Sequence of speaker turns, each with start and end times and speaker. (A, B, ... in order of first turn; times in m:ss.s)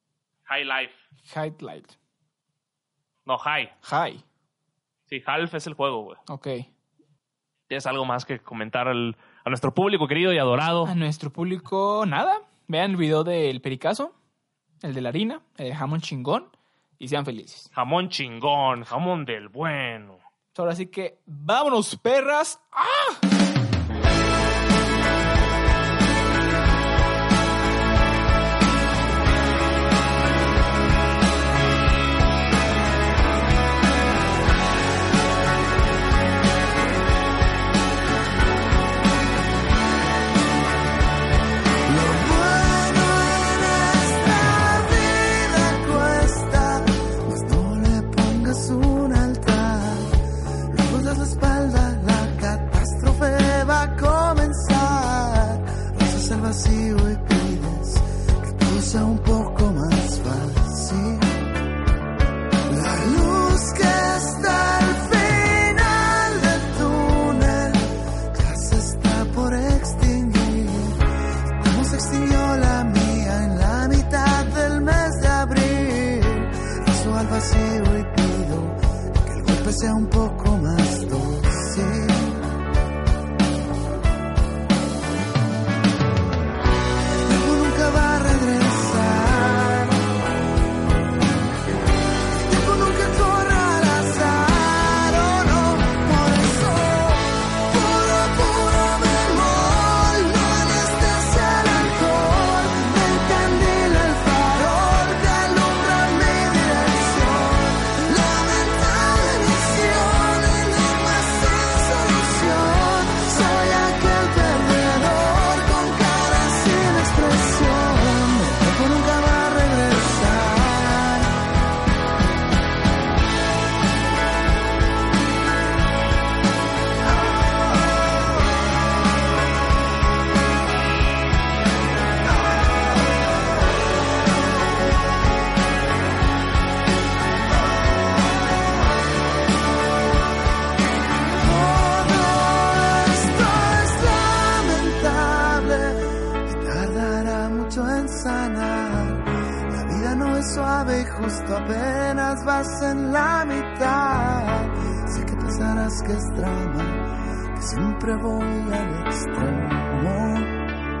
0:00.4-0:01.0 A
0:01.2-0:01.9 B
0:03.2-0:03.7 A
0:03.8-0:04.2 B
0:05.1-0:06.2 A
0:06.3-0:06.7 B
0:07.7-0:10.9 A
0:10.8-0:14.1 B
0:14.8-0:17.7 B
0:17.7-0:20.2 A
0:20.5-0:23.2 B
0:41.9-1:01.4 C
1:02.7-1:11.0 C
1:11.6-1:22.4 C
1:27.2-1:30.1 C
1:32.4-2:01.3 C
2:21.4-2:29.2 C
2:29.8-2:40.6 C